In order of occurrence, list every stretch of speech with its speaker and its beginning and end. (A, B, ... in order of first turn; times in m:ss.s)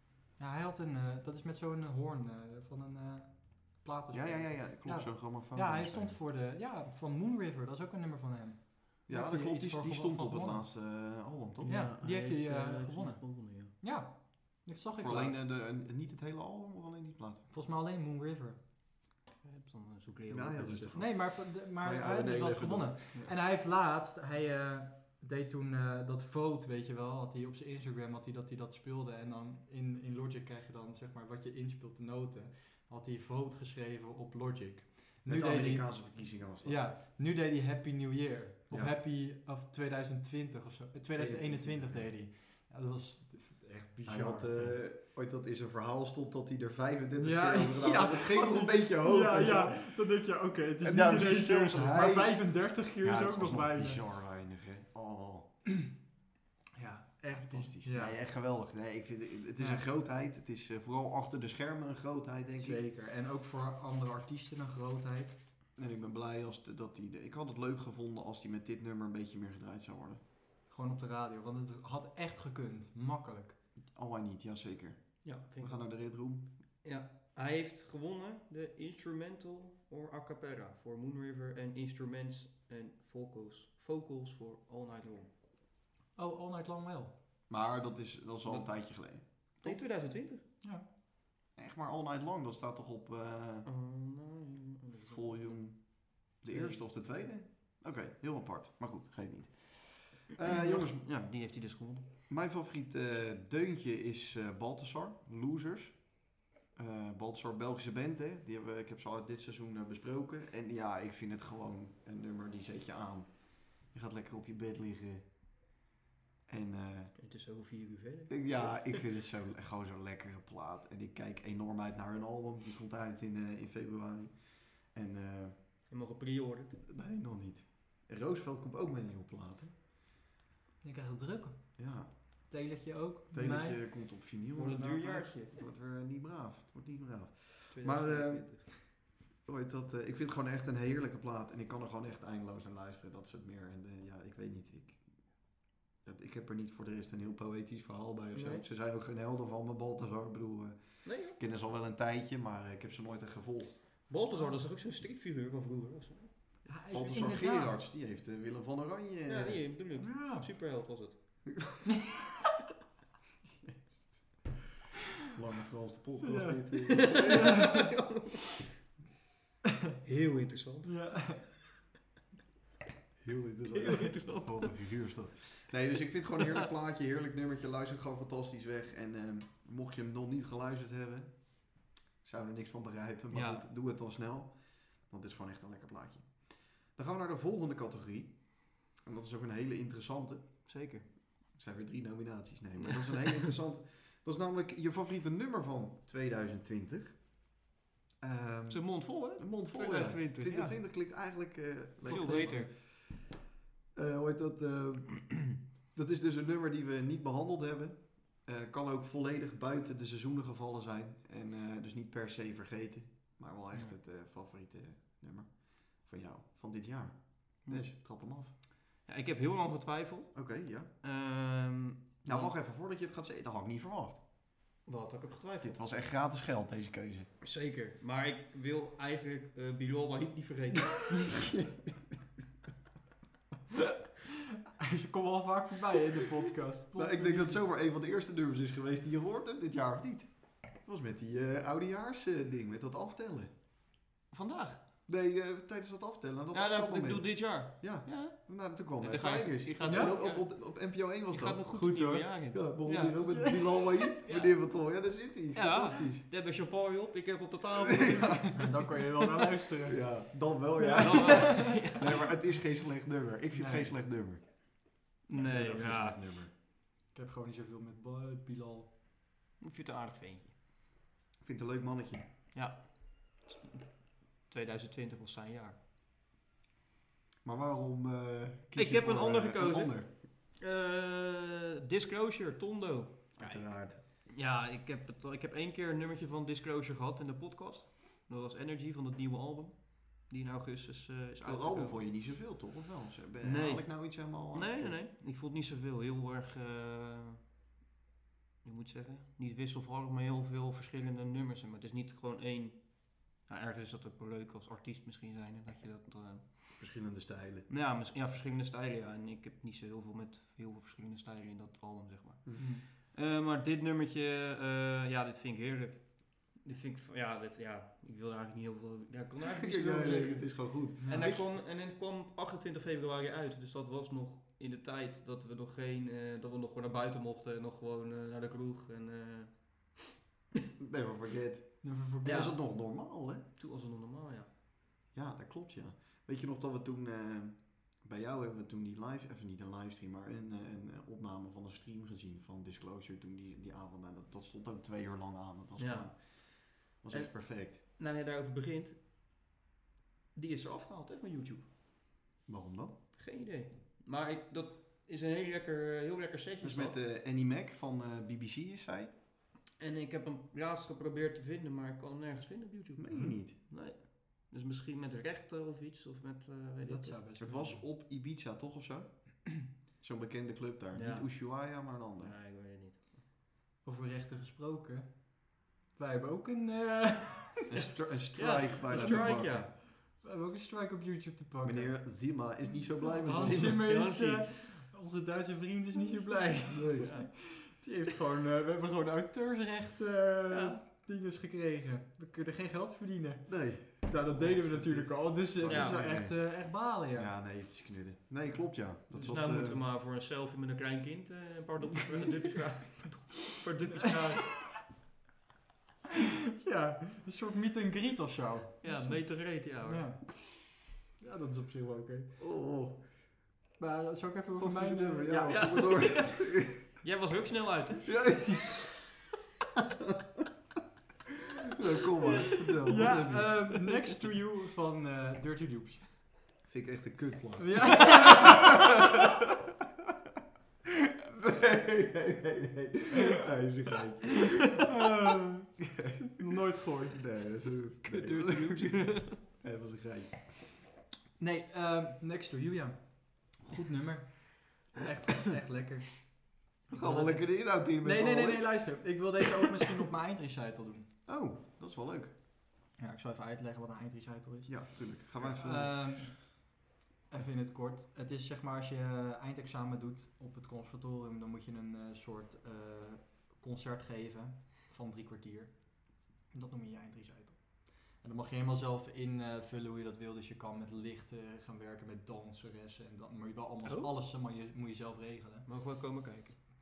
0:00.4-0:10.7 A
0:04.1-0:06.2 B
0:09.1-0:11.9 B
0:11.6-0:13.7 C
0:11.6-0:15.4 A
0:15.0-0:17.5 B
0:17.5-0:18.6 A
0:19.4-0:21.0 C
0:20.3-0:23.0 B
0:21.0-0:44.8 A
0:35.3-0:36.8 B
0:38.7-0:39.0 B
0:41.2-0:42.1 B
0:44.1-0:50.1 B
0:47.2-0:54.0 A
0:50.8-0:55.5 B
0:56.8-0:58.2 A
0:57.4-1:02.8 B
0:59.6-0:59.8 A
1:02.6-1:05.4 A
1:05.8-1:10.2 B
1:10.7-1:13.6 A
1:13.9-1:16.5 B
1:15.2-1:25.3 C
1:26.2-1:27.1 A
1:27.5-1:29.8 B
1:28.5-1:30.4 C
1:31.6-1:33.7 B
1:33.7-1:36.8 C
1:35.0-1:41.0 B
1:40.4-1:42.1 C
1:42.3-1:55.3 B
1:56.5-1:57.2 B
1:57.2-1:59.0 C
1:58.3-2:05.6 B
2:05.9-2:06.8 C
2:06.9-2:09.8 B
2:10.8-2:13.8 A
2:11.8-2:12.1 B
2:13.3-2:25.5 B
2:14.6-2:15.6 C
2:17.7-2:18.7 C
2:26.0-2:34.1 B
2:28.3-2:28.6 C
2:31.0-2:31.4 C
2:34.1-2:36.6 C
2:36.6-2:37.8 A
2:36.9-2:39.7 B
2:39.3-2:41.2 C
2:40.0-2:40.5 A
2:45.3-2:47.6 B
2:46.2-2:47.9 A
2:46.9-2:48.7 C
2:50.0-2:51.3 C
2:50.9-2:51.5 A
2:53.2-3:10.7 B
2:53.7-2:55.0 C
2:56.4-2:56.6 C
3:03.3-3:03.6 C
3:10.7-3:11.0 C
3:11.5-3:17.5 B
3:18.2-3:23.4 B
3:18.7-3:20.8 C
3:22.1-3:22.7 C
3:22.1-3:22.7 A
3:24.0-3:38.5 B
3:39.0-3:42.5 C
3:40.3-3:40.9 B
3:42.2-3:44.2 B
3:44.8-3:45.8 C
3:45.6-3:47.3 B
3:47.4-3:51.4 C
3:51.3-3:52.0 B
3:54.8-3:57.6 A
3:57.0-4:03.5 B
4:04.3-4:04.8 C
4:05.1-4:16.2 B
4:06.5-4:13.7 C
4:09.8-4:10.2 A
4:11.8-4:12.2 A
4:14.2-4:14.6 C
4:15.5-4:18.9 C
4:17.8-4:18.5 B
4:18.5-4:20.2 A
4:19.9-4:26.5 B
4:20.8-4:21.8 A
4:21.0-4:22.3 C
4:23.5-4:23.9 A
4:25.3-4:26.2 C
4:27.1-4:28.9 A
4:29.6-4:30.6 C
4:31.4-4:32.3 B
4:32.5-4:35.8 C
4:37.4-4:40.1 B
4:38.8-4:52.0 C
4:43.4-4:44.0 B
4:51.4-4:55.0 B
4:53.4-4:57.4 C
4:58.6-5:06.9 C
5:06.8-5:07.7 B
5:07.7-5:30.0 C
5:12.6-5:12.8 A
5:19.5-5:21.5 B
5:21.0-5:21.3 A
5:30.8-5:33.4 B
5:31.8-5:32.5 A
5:32.2-5:32.6 C
5:33.6-5:34.5 C
5:35.1-5:47.8 B
5:45.8-5:49.0 C
5:50.4-5:51.7 C
5:52.5-5:53.0 B
5:53.1-5:57.0 C
5:56.6-5:59.1 B
5:59.8-6:07.2 C
6:03.0-6:03.6 B
6:06.8-6:07.8 A
6:07.4-6:12.4 B
6:10.9-6:13.2 C
6:13.8-6:17.6 A
6:17.7-6:19.7 B
6:18.3-6:19.7 C
6:18.9-6:22.2 A
6:21.6-6:23.9 B
6:23.2-6:24.7 C
6:23.3-6:37.3 A
6:26.7-6:27.2 B
6:27.0-6:27.4 C
6:30.5-6:30.8 C
6:33.5-6:39.8 B
6:35.6-6:36.0 C
6:39.1-6:39.4 A
6:39.2-6:44.8 C
6:46.6-6:52.4 A
6:48.8-6:50.2 C
6:52.4-6:53.2 B
6:53.8-6:55.9 A
6:54.6-6:56.8 B
6:55.5-6:58.2 C
6:58.0-6:59.1 B
7:01.7-7:03.7 B
7:02.8-7:06.1 A
7:06.6-7:09.1 B
7:07.6-7:08.9 A
7:11.2-7:16.5 B
7:16.3-7:17.2 A
7:17.1-7:20.7 B
7:18.0-7:19.4 C
7:21.4-7:31.1 A
7:26.9-7:29.2 B
7:31.3-7:32.3 B
7:33.0-7:55.7 A
7:34.7-7:36.2 B
7:53.8-7:54.1 C
7:55.7-7:56.6 C